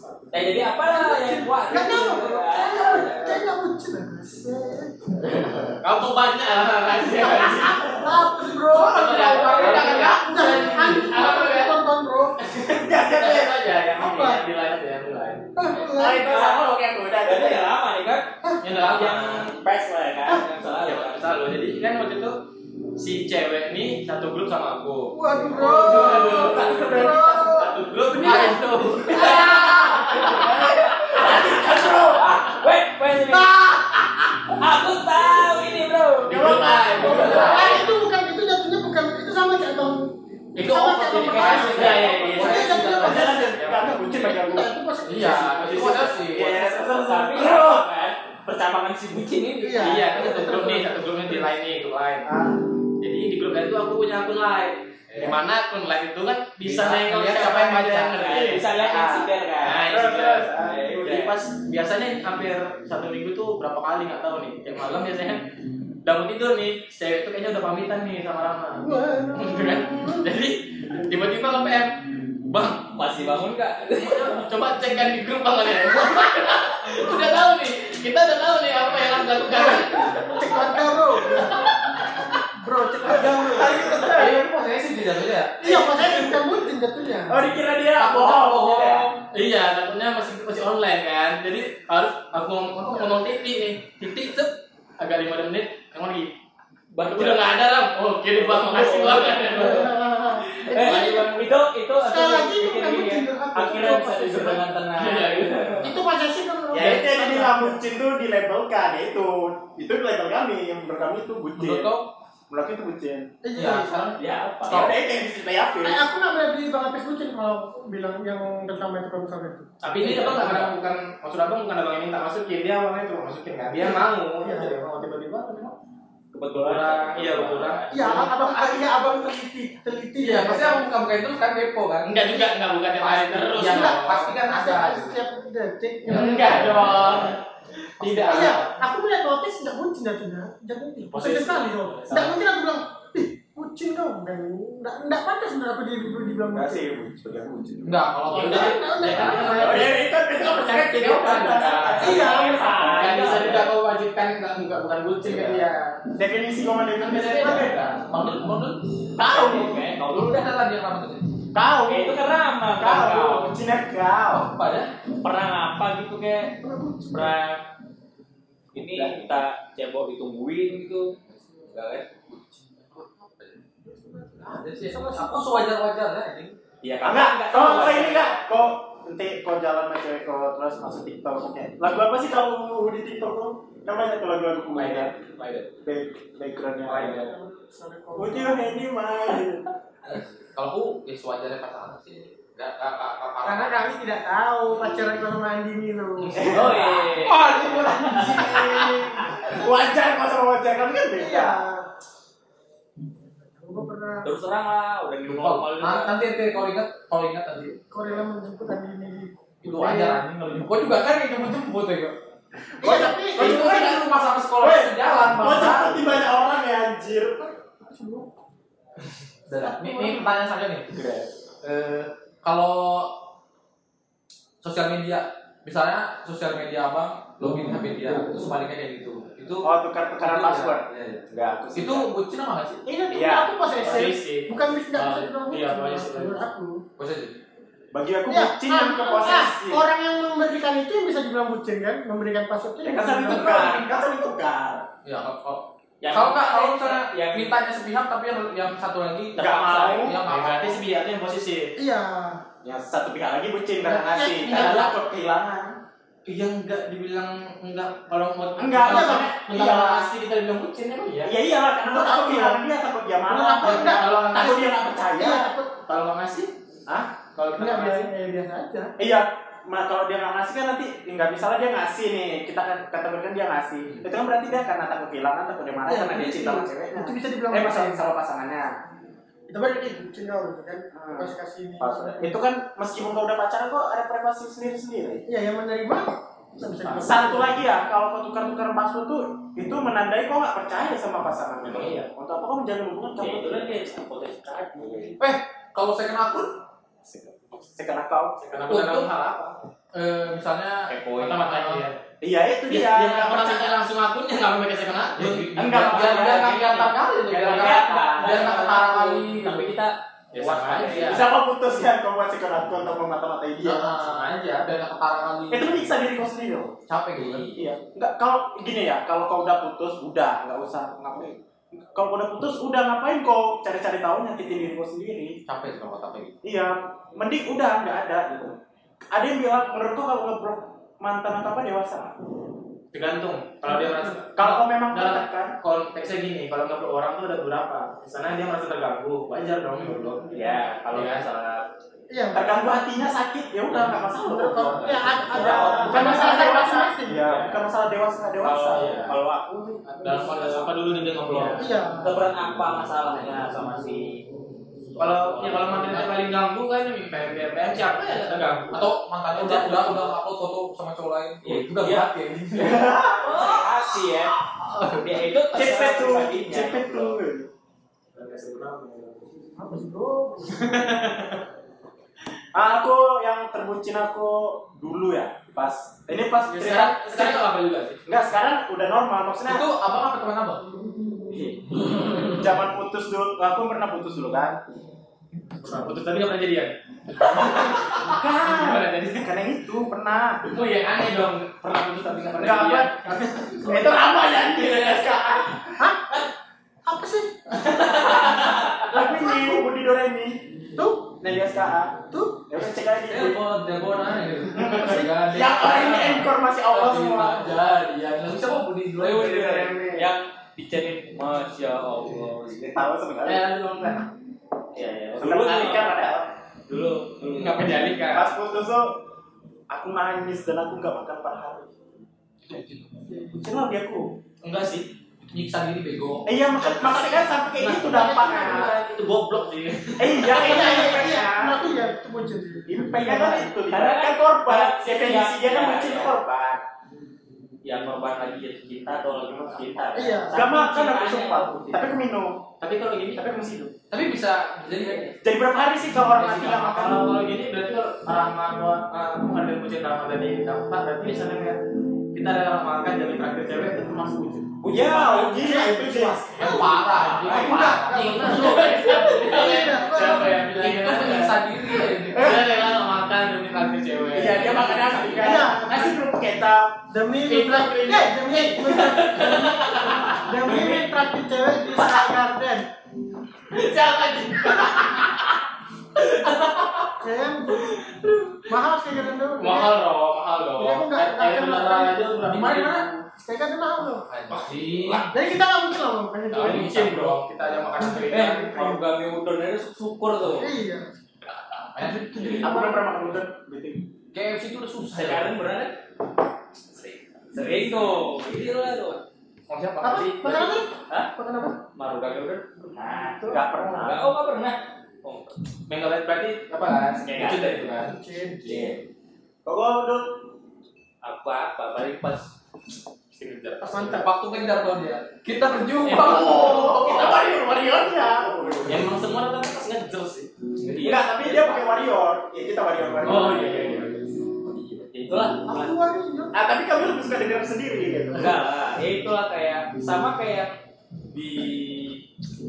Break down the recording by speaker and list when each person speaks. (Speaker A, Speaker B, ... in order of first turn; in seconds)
Speaker A: 0.3-3.4, 16.0-16.7, 17.2-21.3, 29.1-33.9, 34.4-36.4, 41.2-42.3, 46.9-50.0, 58.1-59.9, 60.6-61.4, 73.0-74.5, 96.9-97.5, 98.3-105.9, 114.2-114.9, 126.3-128.2, 151.9-153.7, 159.2-160.5, 161.9-163.5, 165.2-166.6, 167.1-167.6, 168.7-171.1, 171.7-172.1, 176.8-178.4, 196.4-198.7, 204.2-206.1, 246.0-247.5, 293.2-295.2, 300.9-301.4, 305.9-306.7, 307.4-311.3, 317.2-317.6, 340.3-341.6, 345.3-346.7, 347.2-347.6, 348.4-350.7, 351.2-354.2, 355.0-356.1, 361.4-362.1, 363.1-364.4, 364.9-367.2, 409.0-412.9, 414.7-416.1, 416.7-417.7, 433.3-436.1, 437.6-441.9, 444.8-445.1, 454.6-455.5, 488.1-490.5, 494.9-495.8, 496.7-499.0, 501.8-505.4, 507.1-507.7, 508.4-508.8, 511.0-512.3, 520.7-521.6, 524.6-525.7, 528.1-530.5, 531.1-532.0
Speaker B: 0.8-5.8, 7.2-12.4, 13.9-14.4, 15.5-16.3, 25.1-29.4, 37.0-43.6, 44.2-45.8, 49.6-51.1, 68.8-70.3, 79.5-81.7, 82.3-84.0, 85.6-87.4, 99.5-101.4, 102.0-104.6, 105.8-107.8, 113.4-114.0, 115.8-119.7, 123.8-124.7, 127.9-130.8, 133.6-137.0, 138.2-146.8, 148.3-149.9, 152.0-152.9, 166.6-167.3, 173.8-175.4, 186.9-188.8, 193.4-196.6, 198.1-198.9, 201.2-201.8, 203.6-204.3, 207.9-210.2, 212.8-213.9, 217.4-218.3, 219.6-220.1, 232.8-236.8, 238.3-243.8, 251.8-252.4, 253.8-254.4, 258.8-259.3, 261.8-262.6, 263.3-264.1, 265.1-265.7, 267.6-268.9, 275.9-278.0, 279.5-282.3, 285.3-287.5, 342.1-342.7, 344.3-347.2, 351.6-352.1, 369.6-371.1, 395.8-396.1, 396.8-397.9, 399.1-399.6, 400.8-401.1, 402.1-402.4, 423.1-423.4, 430.2-433.4, 439.9-440.4, 455.4-460.4, 465.2-465.9, 466.9-472.7, 477.0-477.7, 478.4-479.8, 480.6-482.1, 483.2-484.1, 485.1-486.7, 487.8-488.8, 490.4-490.9, 492.1-492.9, 499.8-501.6, 507.8-508.7, 513.6-514.0, 525.4-526.3
Speaker C: 5.8-8.0, 8.7-11.8, 12.4-15.5, 18.6-19.5, 20.8-22.4, 23.0-31.1, 36.3-37.9, 40.5-44.2, 45.4-45.9, 49.8-52.3, 53.0-58.7, 59.6-60.5, 61.0-65.4, 66.0-72.9, 74.0-80.7, 81.3-82.0, 89.1-96.3, 97.0-99.9, 100.7-101.4, 105.0-105.9, 119.8-125.7, 126.6-128.3, 132.0-134.3, 136.1-137.4, 138.0-138.7, 141.1-142.4, 148.3-150.0, 150.5-156.0, 157.0-158.1, 184.7-185.7, 219.8-220.3, 233.8-236.4, 243.4-243.9, 250.2-251.7, 254.2-254.9, 256.3-261.3, 263.6-264.7, 265.9-266.5, 267.3-268.1, 291.6-292.0, 298.4-299.6, 301.2-302.0, 302.7-306.6, 307.3-308.5, 310.3-311.2, 313.9-314.6, 332.9-341.3, 348.6-349.1, 349.9-351.7, 355.0-358.8, 359.4-359.8, 368.1-369.2, 370.6-371.4, 376.5-378.0, 385.6-389.3, 390.5-393.9, 394.5-395.1, 397.6-398.9, 413.2-414.1, 417.3-418.3, 424.4-424.9, 426.6-430.5, 442.6-443.2, 446.2-451.6, 452.1-454.5, 457.2-465.6, 467.2-470.8, 473.5-475.2, 476.0-476.9, 477.7-478.4, 479.4-482.9, 486.3-488.6, 499.5-500.6, 505.7-507.9, 513.1-514.0, 515.8-517.0, 518.6-520.9, 523.0-524.2
Speaker D: 8.7-11.1, 28.1-30.2, 37.0-37.7, 41.3-43.4, 45.1-46.6, 56.6-58.1, 83.5-85.8, 88.0-89.1, 111.5-112.1, 113.6-115.0, 120.0-120.7, 130.2-135.2, 136.1-137.2, 138.0-138.5, 147.8-149.3, 157.9-161.4, 164.3-164.9, 172.3-173.6, 174.4-176.6, 190.0-193.9, 196.4-198.7, 205.2-207.8, 209.6-212.1, 212.8-216.2, 219.5-220.9, 221.6-223.1, 224.6-229.7, 230.2-232.8, 237.0-237.3, 245.0-250.8, 295.2-296.6, 298.7-299.1, 299.9-301.9, 305.1-309.7, 313.6-315.9, 316.9-317.6, 325.4-326.4, 344.6-345.7, 358.7-363.0, 364.7-365.0, 379.4-380.6, 403.1-409.7, 422.4-423.0, 425.3-426.3, 443.9-445.1, 456.4-459.1, 460.3-462.4, 482.2-482.9, 484.1-485.1, 486.4-487.2, 491.7-492.6, 494.1-495.4, 513.9-517.2
Speaker E: 12.7-13.6, 15.9-17.7, 25.5-27.6, 31.0-32.5, 36.2-37.7, 43.0-47.9, 52.2-52.6, 58.7-59.3, 59.8-61.5, 83.0-84.5, 85.6-86.5, 87.3-89.1, 106.7-111.9, 112.5-113.3, 114.7-116.0, 146.5-148.1, 149.5-153.7, 156.2-157.8, 159.3-159.7, 161.5-162.2, 162.8-164.5, 177.0-185.2, 185.8-187.3, 188.2-189.7, 196.3-201.6, 212.8-214.1, 214.6-217.4, 220.9-221.3, 229.6-232.1, 233.1-233.8, 237.9-239.8, 242.8-244.8, 249.4-250.3, 252.6-255.8, 258.6-260.1, 261.2-265.5, 266.9-267.1, 269.0-278.8, 280.9-285.2, 286.9-293.8, 297.0-298.6, 302.2-303.8, 305.5-306.8, 307.4-308.4, 311.0-313.9, 315.5-316.7, 317.5-321.4, 321.9-325.4, 326.4-328.6, 329.1-332.1, 334.3-335.5, 342.3-349.0, 362.5-363.6, 365.5-367.5, 372.5-377.4, 378.1-379.6, 381.3-384.6, 387.4-390.4, 392.4-395.7, 398.9-400.4, 401.2-401.9, 402.5-403.4, 404.5-407.6, 409.6-410.1, 412.7-413.4, 415.2-416.3, 418.1-418.9, 419.7-421.8, 423.3-424.2, 426.2-428.8, 430.0-431.6, 432.7-436.6, 440.3-442.5, 443.1-443.7, 445.2-447.1, 454.6-457.7, 462.1-462.4, 464.1-466.7, 492.3-493.8, 503.3-504.1, 509.4-510.2, 515.9-518.9, 520.8-523.9, 526.3-528.4